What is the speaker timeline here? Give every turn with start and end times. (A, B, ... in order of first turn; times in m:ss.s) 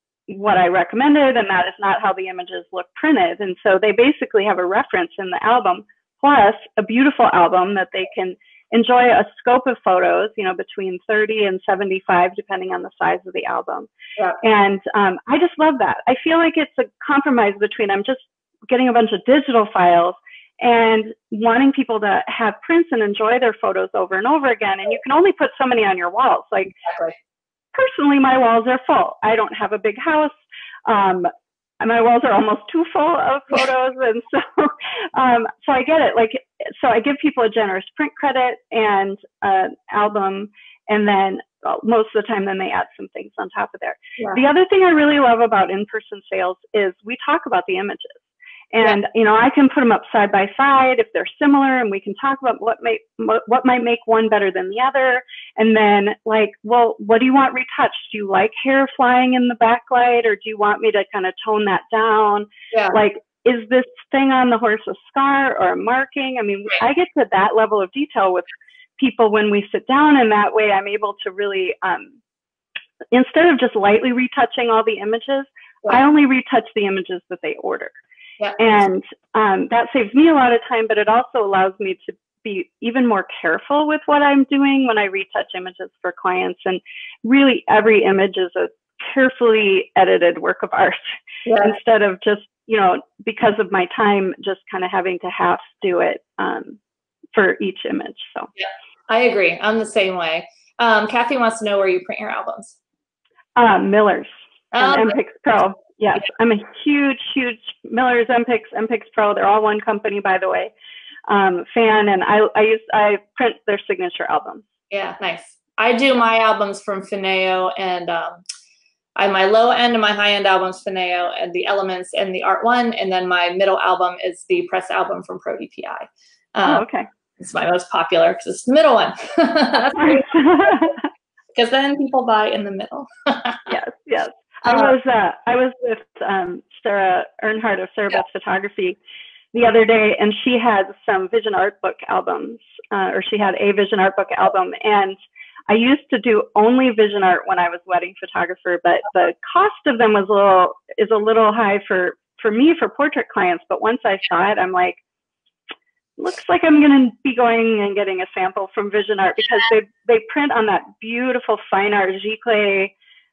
0:00.3-0:13.9 A
0:14.4-0:26.7 A
0:26.8-0:27.1 B
0:27.7-1:08.5 A
1:09.0-1:12.1 A
1:13.1-1:17.9 A
1:18.6-1:31.0 A
1:31.4-1:31.8 B
1:31.6-1:36.8 A
1:37.3-1:38.5 A
1:38.6-1:42.8 B
1:43.6-1:50.7 A
1:44.7-1:45.1 B
1:51.3-1:54.6 A
1:54.9-1:58.4 B
1:59.2-2:06.8 B
2:06.6-2:07.1 A
2:07.4-2:10.9 B
2:09.9-2:11.1 A
2:11.5-2:13.7 B
2:13.7-2:19.0 A
2:14.7-2:14.9 B
2:19.5-2:25.2 A
2:25.7-2:35.0 A
2:36.2-2:42.9 A